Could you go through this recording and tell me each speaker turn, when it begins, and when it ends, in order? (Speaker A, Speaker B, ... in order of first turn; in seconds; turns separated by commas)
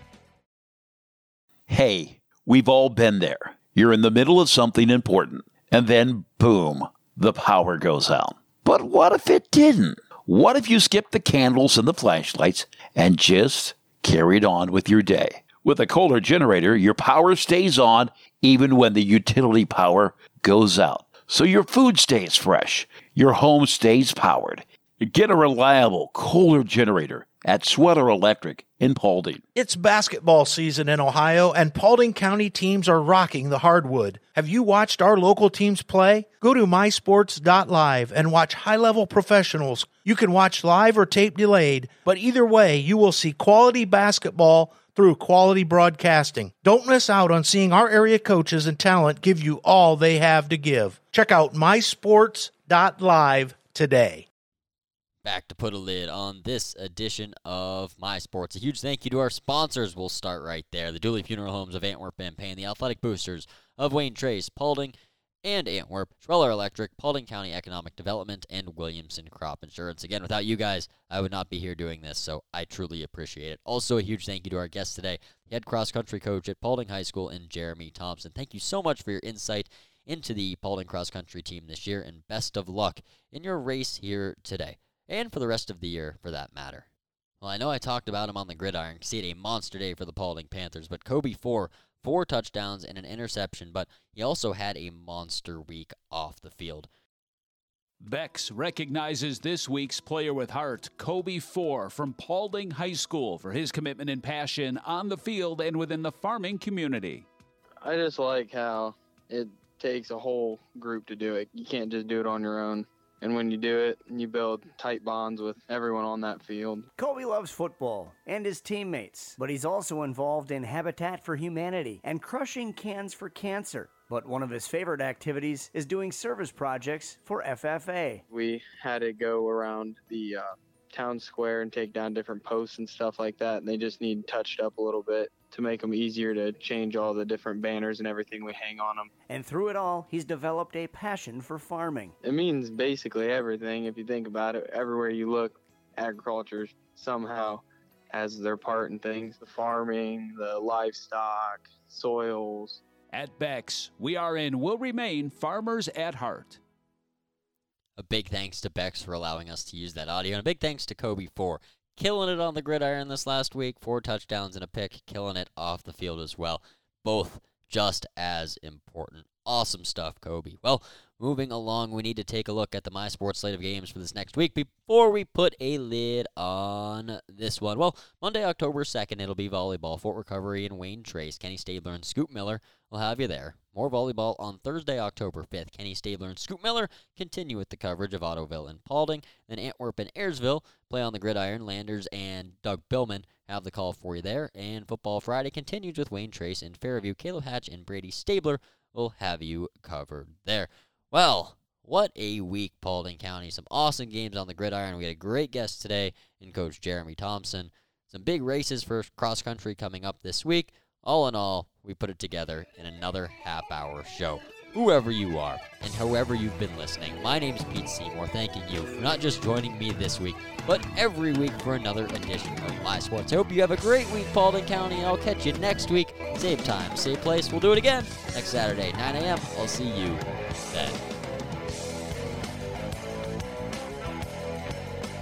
Speaker A: 1.7-29.4, Speaker B: 29.5-54.2, Speaker C: 55.2-86.8, Speaker C: 87.4-96.9, Speaker D: 98.0-107.3, Speaker E: 107.8-116.9, Speaker F: 117.0-128.2, Speaker E: 128.3-139.1, Speaker F: 139.3-142.1, Speaker E: 142.2-152.8, Speaker D: 153.1-156.6, Speaker C: 158.0-231.0